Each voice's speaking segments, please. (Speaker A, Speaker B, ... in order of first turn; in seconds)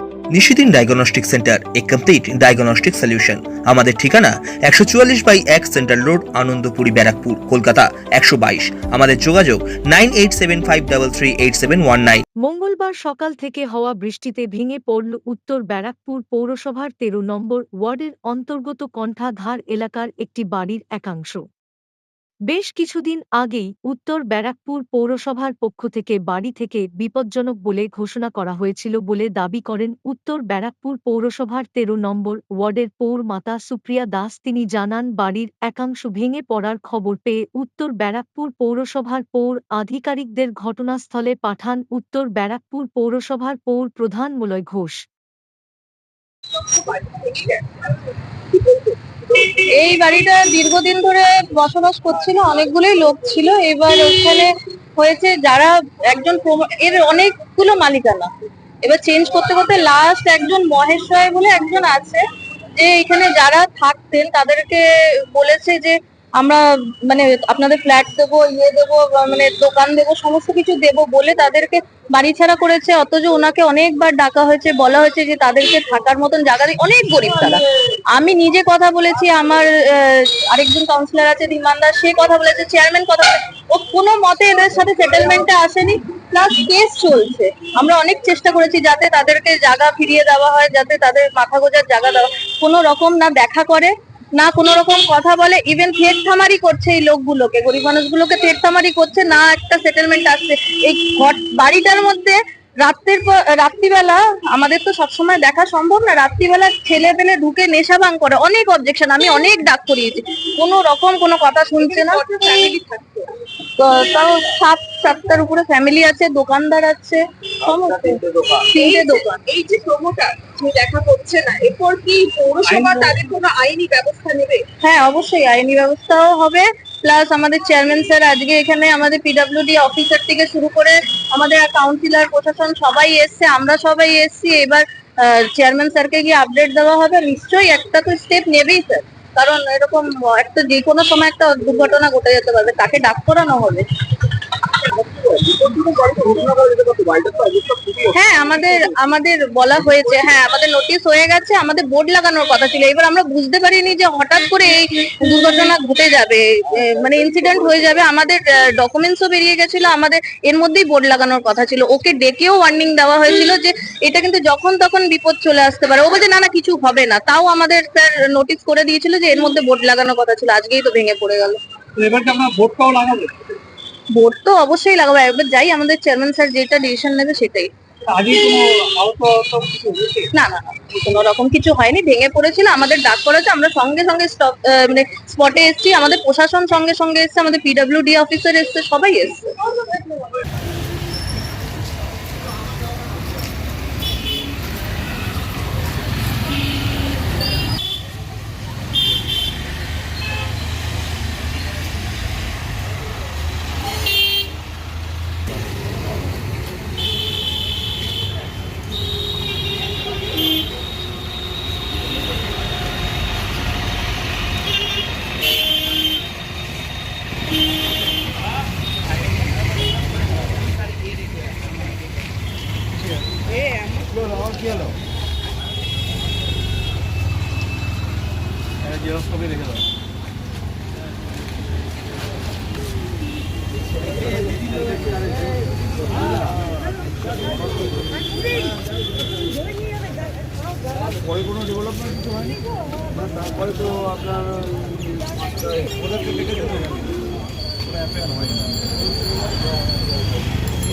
Speaker A: 0.3-12.2
Speaker B: 12.4-21.4, 22.5-45.0
Speaker C: 49.7-58.3, 58.8-62.2, 62.8-112.3, 113.8-119.4, 124.8-143.8, 148.1-171.6, 174.2-177.7, 180.3-189.7
Speaker D: 111.8-113.3, 114.0-114.3, 117.7-124.7, 145.0-148.1
Speaker E: 122.7-123.1, 172.0-173.3, 178.1-180.2